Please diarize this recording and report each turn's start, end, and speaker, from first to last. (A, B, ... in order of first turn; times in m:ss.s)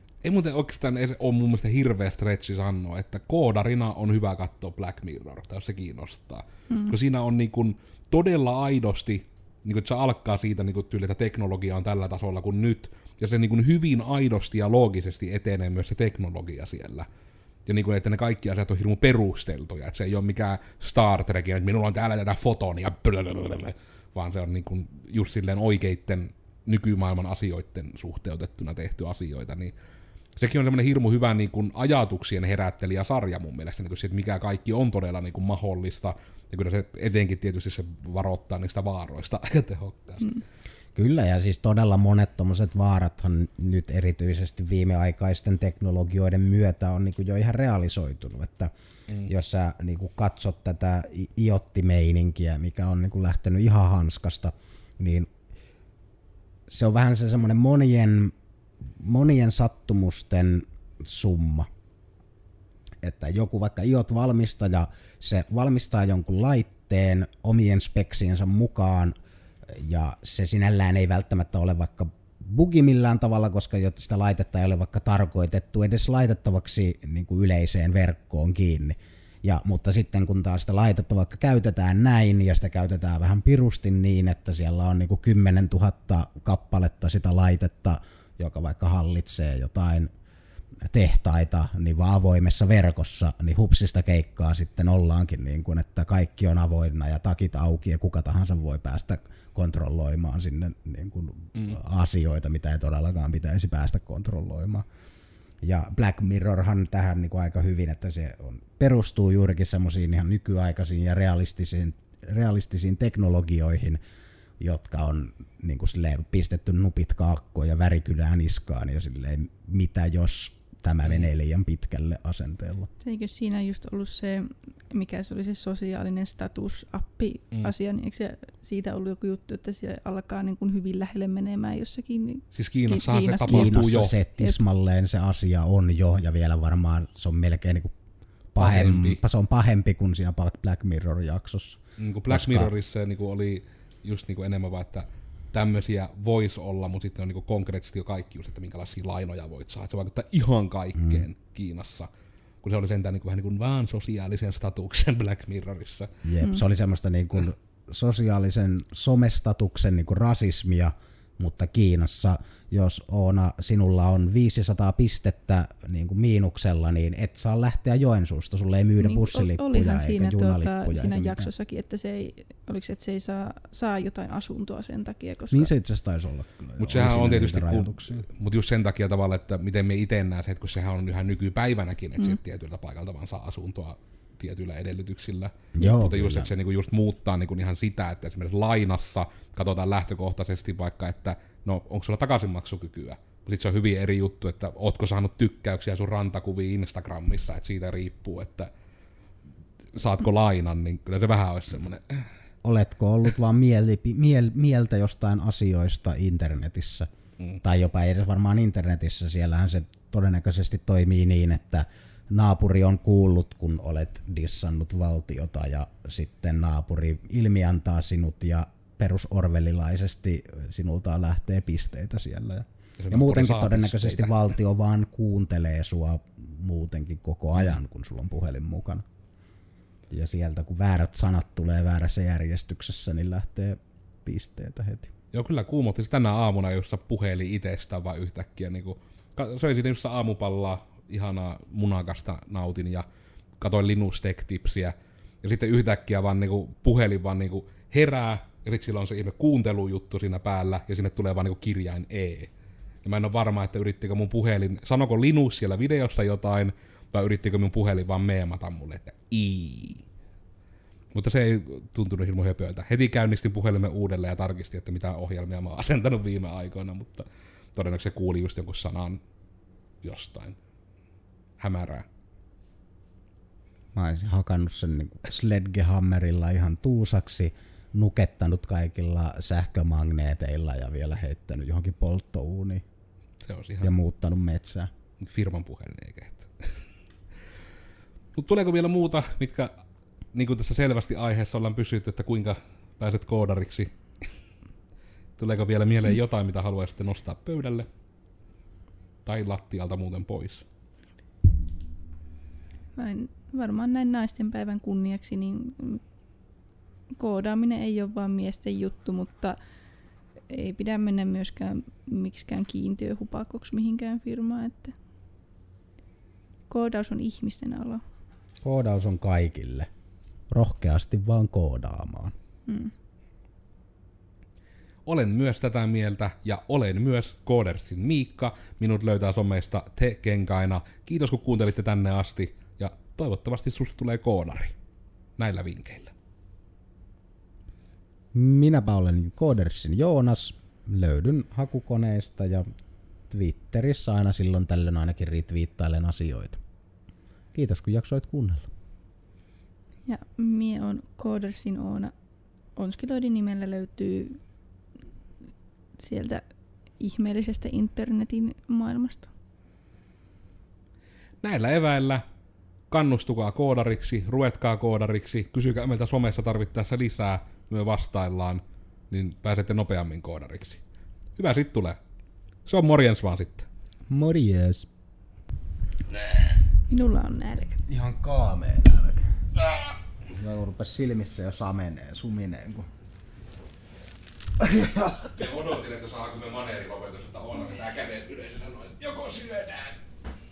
0:00.2-0:17.1 A
0:06.7-0:07.0 B
0:17.7-0:29.7 A
0:30.4-0:40.4 A
0:41.0-0:48.7 C
0:49.2-0:55.3 C
0:56.7-0:58.3 C
0:59.0-1:01.7 C
1:03.0-1:09.2 C
1:09.7-1:30.1 C
1:30.8-1:44.9 C
1:45.6-1:54.0 C
1:54.6-2:02.9 C
2:03.0-2:13.8 B
2:12.5-2:14.2 A
2:13.5-2:17.9 C
2:18.6-2:22.7 C
2:18.6-2:19.2 A
2:22.0-2:32.1 A
2:32.6-2:36.1 A
2:36.2-2:51.5 C
2:49.0-2:55.7 B
2:55.5-2:58.2 C
2:56.8-3:18.7 A
3:05.8-3:06.5 C
3:19.9-3:22.3 A
3:22.6-3:27.1 C
3:27.6-3:49.0 C
3:43.0-3:44.4 A
3:50.1-3:55.1 C
3:55.3-4:03.1 A
4:03.6-4:12.5 A
4:13.0-4:20.0 A
4:21.1-4:29.2 A
4:30.0-4:30.6 A
4:31.6-4:32.1 A
4:34.0-4:42.8 C
4:43.4-4:43.9 A
4:43.8-4:44.9 C
4:45.2-4:46.8 A
4:48.4-4:49.7 A
4:50.3-4:53.9 A
4:55.4-4:57.9 A
4:59.2-5:00.6 A
5:03.0-5:06.0 B
5:07.2-5:09.6 B
5:10.5-5:15.0 B
5:16.7-5:18.0 B
5:18.6-5:19.9 C
5:20.5-5:22.3 C
5:22.7-5:22.9 B
5:25.1-5:34.8 A
5:35.4-5:36.1 A
5:38.3-5:42.7 C
5:43.3-5:46.6 C
5:47.5-5:48.7 C
5:50.1-5:52.1 B
5:52.8-5:54.4 B
5:56.0-5:56.4 B
5:57.0-5:59.3 B
6:01.4-6:02.2 A
6:02.9-6:10.8 A
6:11.4-6:12.0 A
6:12.7-6:13.7 A
6:14.1-6:14.9 C
6:16.9-6:17.8 B
6:17.9-6:19.4 C
6:20.3-6:22.9 C
6:24.6-6:25.3 C
6:25.3-6:30.0 A